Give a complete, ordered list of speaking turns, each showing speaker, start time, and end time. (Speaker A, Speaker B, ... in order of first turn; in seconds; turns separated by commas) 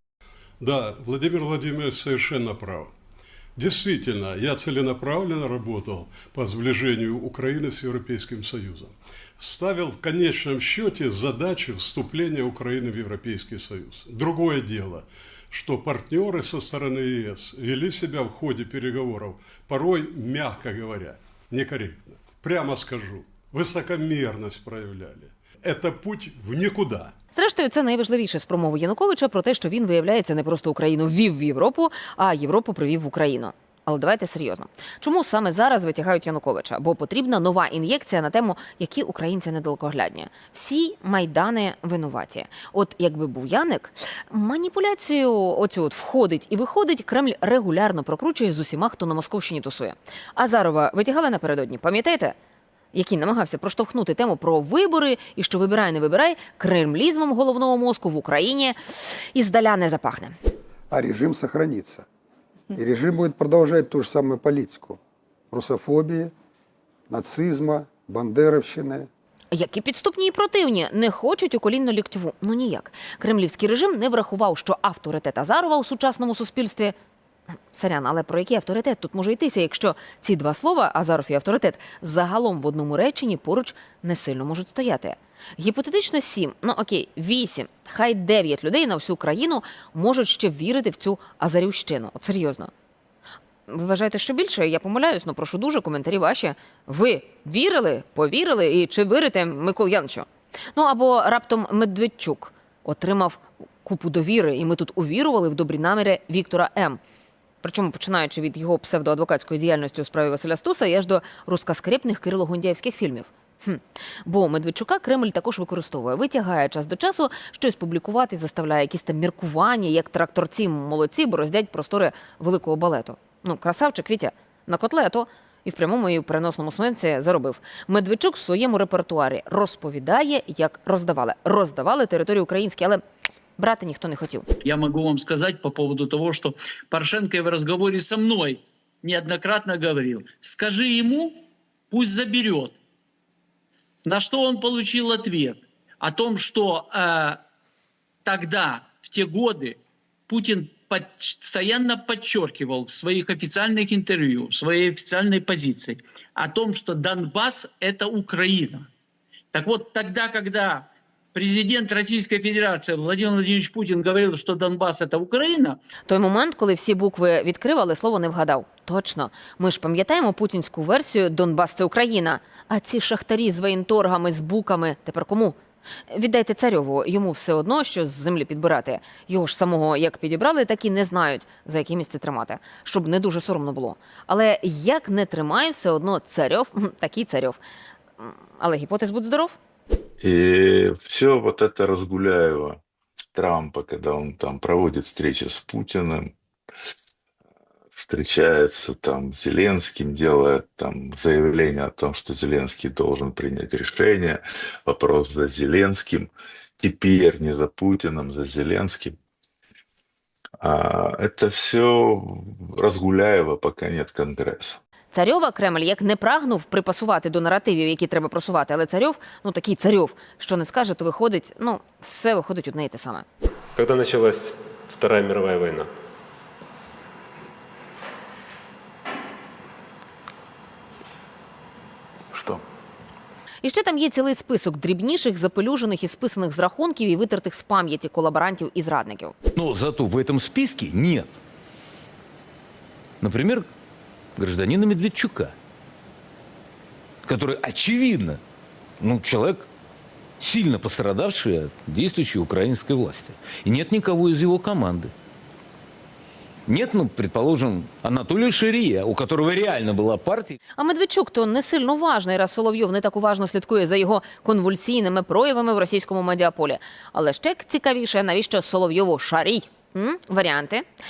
Speaker A: 0.6-2.9, Speaker A: 3.6-27.1, Speaker B: 27.3-52.4, Speaker B: 52.9-60.3, Speaker C: 60.9-62.1, Speaker C: 62.7-65.0, Speaker C: 65.5-66.3, Speaker C: 67.1-69.1, Speaker B: 69.5-77.0, Speaker B: 77.7-92.7, Speaker B: 93.7-107.0, Speaker B: 107.6-133.0, Speaker B: 133.6-134.5, Speaker D: 134.6-142.8, Speaker D: 144.0-147.4, Speaker D: 148.2-158.9, Speaker D: 159.5-165.8, Speaker B: 166.1-175.6, Speaker B: 176.1-187.6, Speaker B: 188.2-189.6, Speaker E: 190.2-192.8, Speaker E: 193.3-196.3, Speaker E: 198.0-209.2, Speaker E: 210.6-214.8, Speaker B: 215.1-223.2, Speaker F: 223.8-225.9, Speaker B: 233.6-239.3, Speaker G: 239.6-241.3, Speaker G: 243.2-243.7, Speaker G: 244.4-245.6, Speaker G: 247.3-248.4, Speaker G: 249.0-249.7, Speaker G: 250.4-255.1, Speaker G: 256.7-260.6, Speaker B: 260.8-270.8